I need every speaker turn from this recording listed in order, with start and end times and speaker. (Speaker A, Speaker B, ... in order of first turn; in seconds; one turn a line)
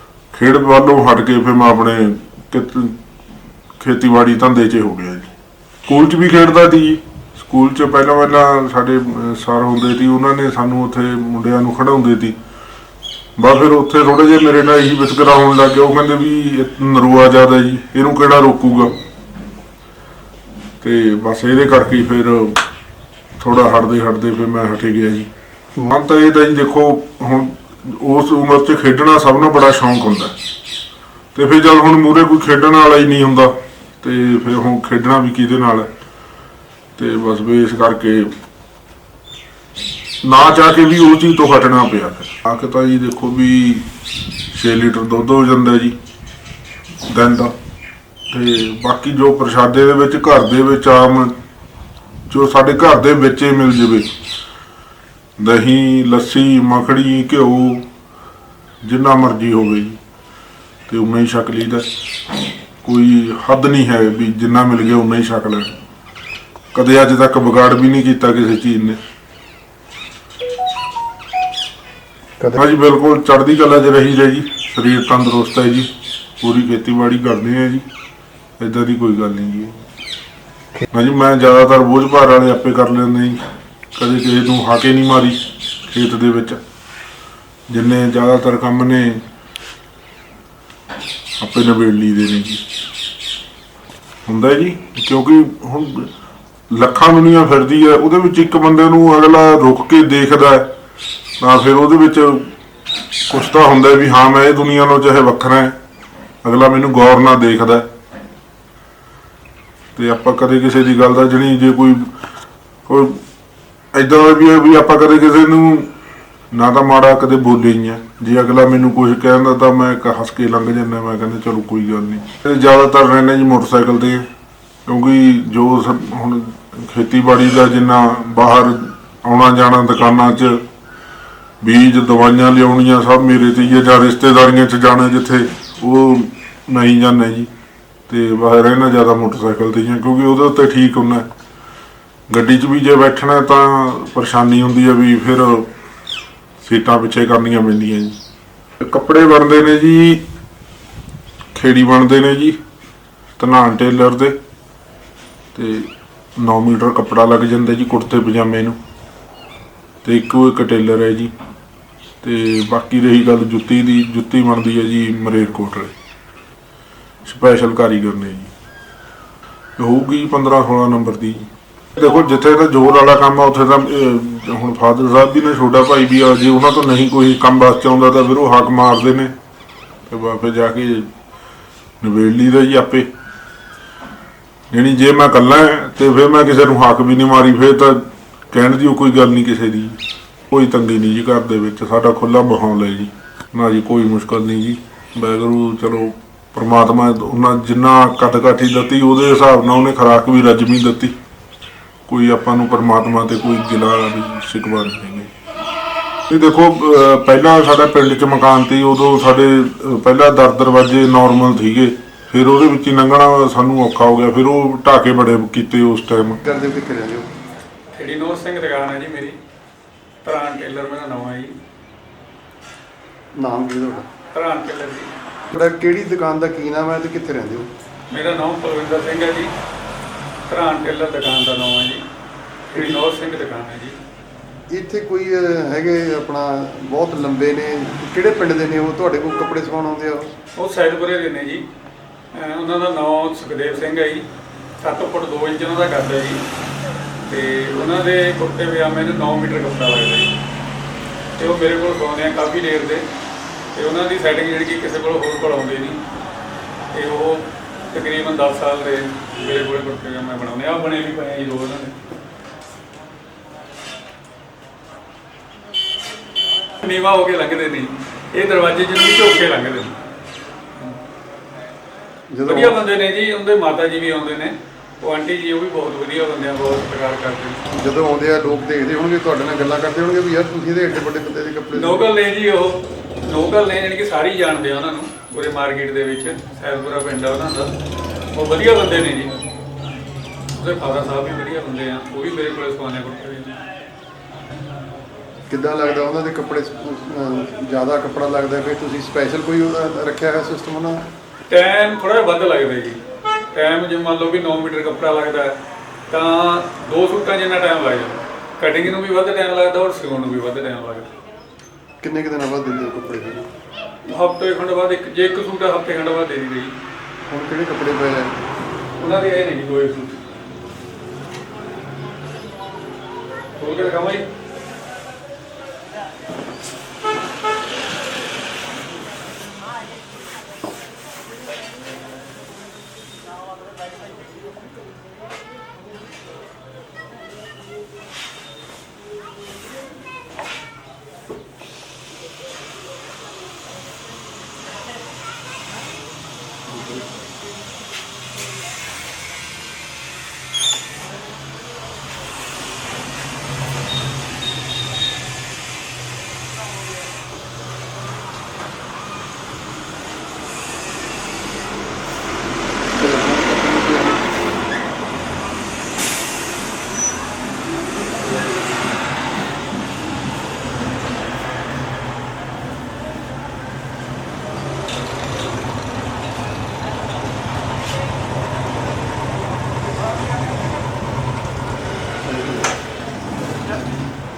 Speaker A: 0.3-3.0
Speaker A: 3.8-5.3
Speaker A: 5.9-12.4
Speaker A: 13.4-19.0
Speaker A: 20.8-22.6
Speaker A: 23.4-25.3
Speaker A: 25.9-30.4
Speaker A: 31.3-35.9
Speaker A: 37.0-38.3
Speaker A: 40.2-43.9
Speaker A: 44.5-46.0
Speaker A: 47.0-47.5
Speaker A: 48.3-51.4
Speaker A: 52.3-54.1
Speaker A: 55.4-57.9
Speaker A: 58.8-60.0
Speaker A: 60.9-61.9
Speaker A: 62.8-65.8
Speaker A: 66.7-69.0
Speaker A: 72.5-75.9
Speaker A: 76.4-77.9
Speaker A: 78.6-79.8
Speaker A: 80.9-83.4
Speaker A: 84.0-86.6
Speaker A: 87.7-89.2
Speaker A: 91.4-92.6
Speaker A: 94.3-96.1
Speaker A: 96.7-100.7
Speaker A: 101.4-102.5
Speaker A: 103.3-105.8
Speaker A: 106.4-107.9
Speaker A: 110.0-112.1
Speaker A: 112.9-113.2
Speaker A: 113.9-115.9
Speaker A: 116.5-124.3
Speaker A: 124.9-130.6
Speaker A: 131.6-137.5
Speaker A: 138.1-141.3
Speaker A: 142.3-145.7
Speaker A: 146.6-148.2
Speaker A: 148.8-150.2
Speaker A: 151.5-152.6
Speaker A: 153.4-154.4
Speaker A: 155.6-158.8
Speaker A: 160.0-161.3
Speaker A: 162.2-165.9
Speaker A: 167.2-168.5
Speaker A: 169.8-179.3
Speaker A: 180.1-181.1
Speaker A: 182.0-183.1
Speaker A: 184.7-190.0
Speaker A: 190.5-201.1
Speaker A: 202.1-205.3
Speaker A: 206.3-216.4
Speaker B: 216.4-217.3
Speaker C: 217.9-219.4
Speaker C: 220.2-221.6
Speaker B: 223.3-224.1
Speaker C: 224.3-225.1
Speaker B: 225.5-227.7
Speaker C: 228.1-229.5
Speaker C: 230.5-232.0
Speaker C: 232.7-234.0
Speaker B: 232.7-233.0
Speaker B: 234.7-240.3
Speaker C: 240.6-241.7
Speaker C: 242.3-244.3
Speaker C: 244.8-246.4
Speaker C: 247.3-250.3
Speaker C: 251.4-253.1
Speaker C: 253.8-256.0
Speaker C: 256.9-262.0
Speaker C: 266.8-270.0
Speaker B: 272.3-272.8
Speaker C: 272.5-277.6
Speaker B: 277.7-282.1
Speaker C: 281.7-287.8
Speaker C: 288.3-289.4
Speaker C: 290.6-293.6
Speaker B: 295.5-301.1
Speaker C: 301.5-303.0
Speaker C: 303.5-305.5
Speaker C: 306.1-311.1
Speaker B: 312.0-313.5
Speaker C: 314.1-316.7
Speaker B: 317.2-318.3
Speaker C: 319.0-320.2
Speaker C: 323.6-324.3
Speaker B: 363.0-364.2
Speaker B: 382.3-382.7